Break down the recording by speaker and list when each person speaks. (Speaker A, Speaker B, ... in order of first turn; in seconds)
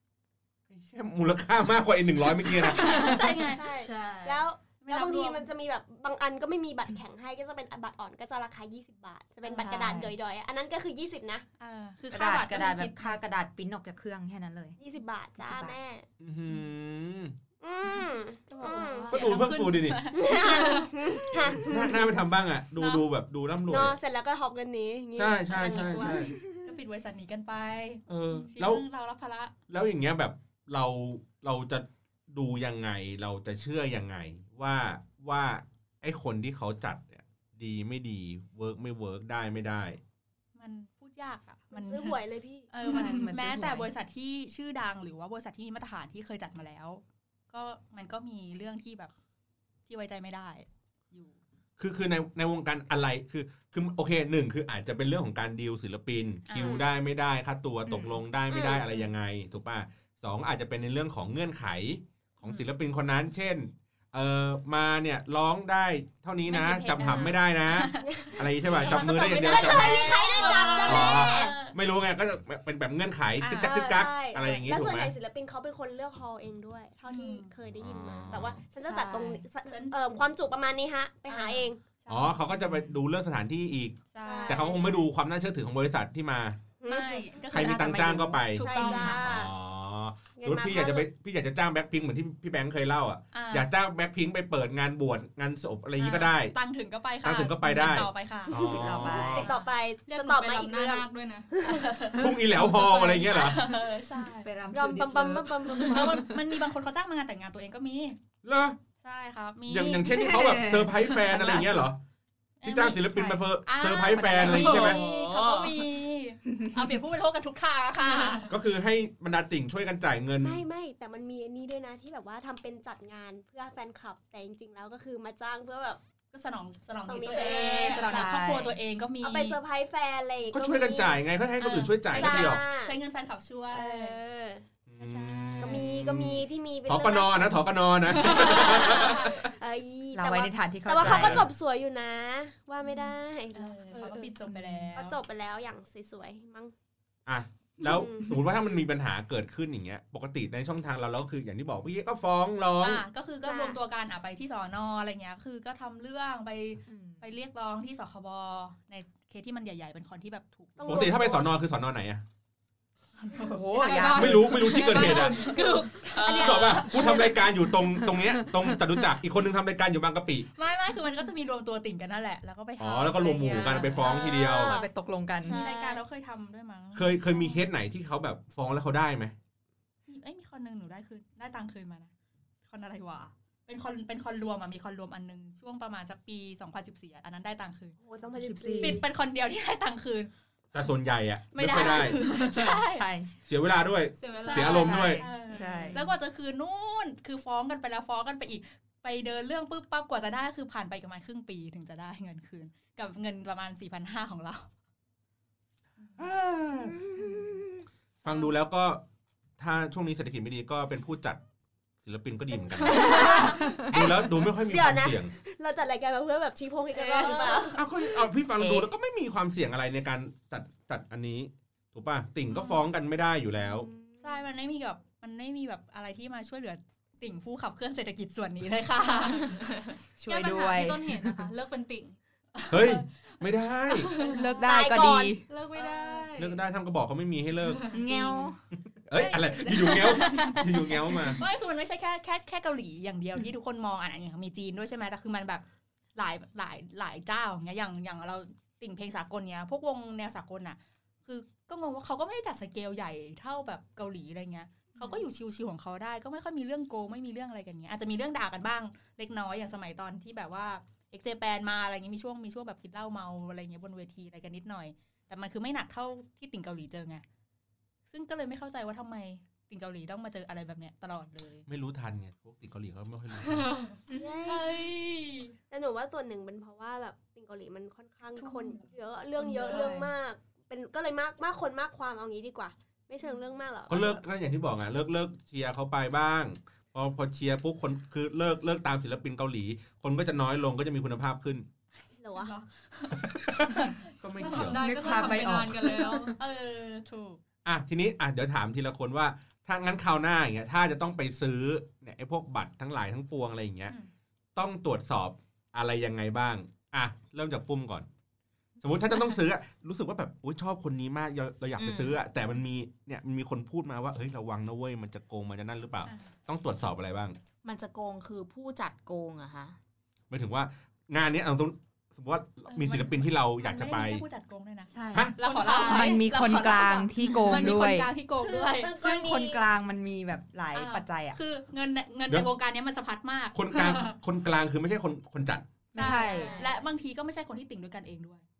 Speaker A: 0.7-3.2, 16.2-17.3, 19.1-20.1, 21.5-24.0, 25.1-26.3, 28.1-28.8, 29.7-40.0, 51.8-70.1, 70.7-75.1, 77.8-78.6, 82.1-86.6, 87.5-96.5, 97.2-99.5, 102.2-103.7, 108.4-108.8, 109.7-112.0, 112.6-115.0, 118.5-120.6, 130.5-132.6, 134.9-139.5, 141.0-141.5, 147.2-153.0, 160.8-162.2, 164.0-165.5, 166.2-170.5, 172.8-174.7, 176.9-179.3, 190.7-192.2, 193.4-195.3, 206.2-207.7, 208.2-209.0, 209.6-211.4, 212.0-215.3, 217.7-223.9, 232.7-234.2, 236.3-237.9, 239.1-241.4, 271.7-273.8, 283.9-291.6, 293.2-294.8, 297.6-303.9, 304.6-308.1, 308.8-317.4, 320.3-324.2, 325.1-325.4, 333.5-335.7
Speaker B: 2.6-3.6, 4.8-5.5, 11.6-13.2, 18.5-21.0, 22.8-23.0, 25.6-29.5, 40.5-42.2, 42.7-49.1, 49.9-51.4, 56.5-56.8, 66.5-71.7, 73.4-73.9, 77.0-77.5, 78.9-80.0, 81.3-82.9, 84.1-84.9, 86.8-89.2, 93.3-93.7, 96.0-98.6, 101.6-104.5, 105.7-108.2, 109.0-110.3, 112.6-113.1, 113.6-118.5, 126.3-129.6, 131.6-134.2, 135.0-135.8, 138.2-139.2, 142.8-145.2, 152.8-161.1, 163.2-167.4, 170.6-174.3, 175.4-177.7, 180.1-182.1, 182.6-187.9, 188.8-190.3, 191.5-193.1, 194.4-204.7, 212.8-213.5, 216.9-217.8, 222.5-222.8, 224.2-229.7, 232.5-233.1, 233.9-234.5, 235.8-236.3, 239.1-245.6, 246.1-267.2, 268.1-271.6, 278.4-278.9, 279.6-279.9, 292.4-295.5, 296.3-297.4, 316.0-316.3, 322.7-328.9, 330.7-334.1, 335.9-338.4
Speaker C: 2.9-4.4, 19.2-19.8, 100.0-101.5, 118.1-118.5, 127.3-128.1, 163.8-165.8, 194.2-195.3, 230.2-232.2, 234.1-234.7, 235.4-236.6, 294.4-296.4, 325.4-326.3
Speaker D: 3.5-11.4, 14.8-16.0, 17.6-19.3, 20.1-22.0, 23.7-26.3, 41.7-42.7, 56.6-56.8, 58.5-58.9, 68.0-71.6, 73.6-81.8, 84.2-85.0, 86.8-87.4, 88.5-89.5, 90.3-91.1, 98.5-101.9, 104.7-106.3, 120.4-126.0, 127.0-128.3, 129.2-131.2, 132.1-132.9, 133.7-134.7, 135.6-144.3, 144.9-146.7, 147.8-148.4, 153.4-153.8, 160.8-161.5, 174.0-174.9, 175.5-176.0, 188.0-189.0, 212.8-217.8, 223.6-224.4, 234.6-235.4, 274.1-274.9, 275.7-284.2, 292.2-292.5, 328.4-329.6, 336.2-336.6
Speaker E: 9.4-10.1, 12.1-14.8, 15.4-15.8, 42.8-43.9, 57.9-58.2, 78.8-79.4, 87.5-88.4, 98.6-99.5, 104.4-106.4, 110.1-111.8, 113.1-113.4, 114.2-114.6, 128.0-128.8, 140.1-141.5, 144.5-144.9, 156.9-157.2, 163.4-164.8, 168.1-168.8, 173.5-175.6, 188.3-189.0, 192.0-193.3, 194.6-196.1, 218.6-218.8, 230.2-231.5, 234.2-235.4, 238.1-238.5, 274.1-274.6, 279.4-280.1, 294.4-296.3, 324.9-328.1, 329.0-331.4, 335.9-336.6
Speaker F: 114.5-115.9, 165.3-167.1, 237.9-238.6, 311.8-312.2, 317.6-319.8, 336.0-336.7